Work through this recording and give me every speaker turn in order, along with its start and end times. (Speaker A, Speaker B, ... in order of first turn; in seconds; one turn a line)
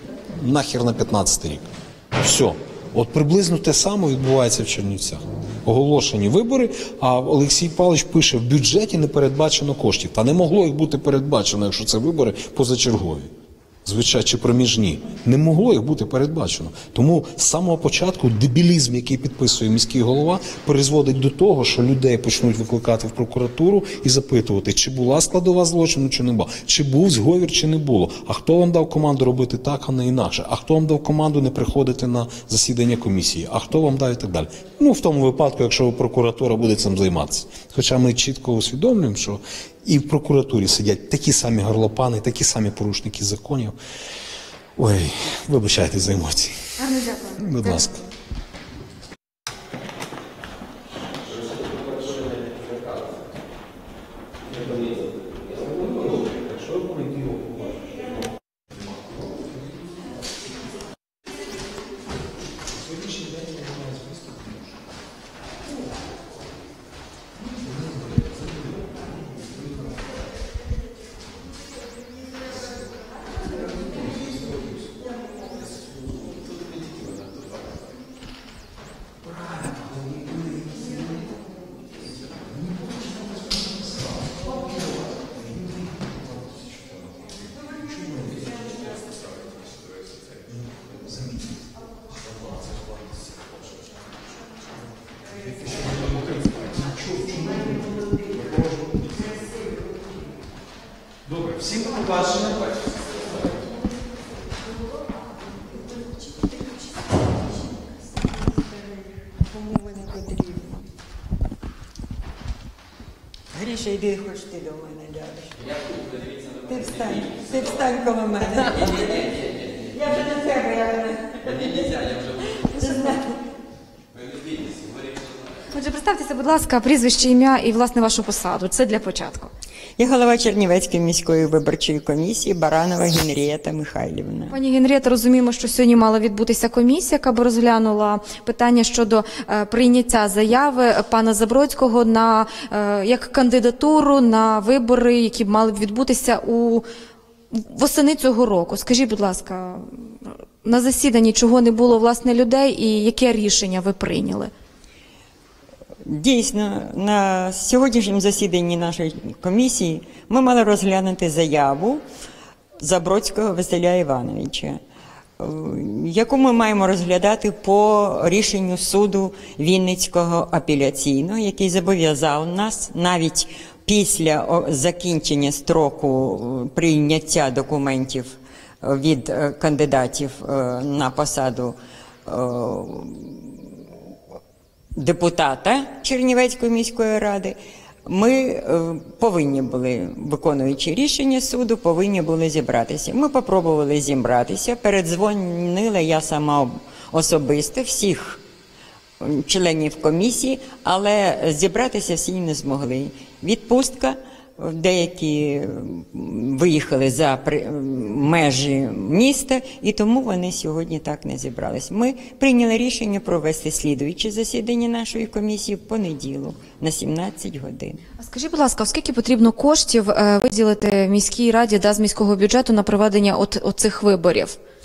Speaker A: 0.3-1.6
Speaker A: 2.1-13.3
Speaker A: 13.8-43.7
Speaker A: 44.8-46.5
Speaker B: 46.8-47.9
Speaker A: 47.4-48.0
Speaker A: 55.6-57.8
Speaker A: 62.9-64.3
Speaker A: 96.1-97.8
Speaker A: 101.8-102.4
Speaker C: 109.4-110.9
Speaker C: 113.5-115.7
Speaker C: 116.5-123.3
Speaker B: 125.7-129.5
Speaker C: 130.0-134.6
Speaker B: 134.5-146.8
Speaker B: 147.5-154.5
Speaker C: 156.0-162.0
Speaker C: 162.8-164.8
Speaker C: 165.4-183.8
Speaker C: 184.9-198.4
Speaker C: 199.2-218.1
Speaker B: 218.2-224.6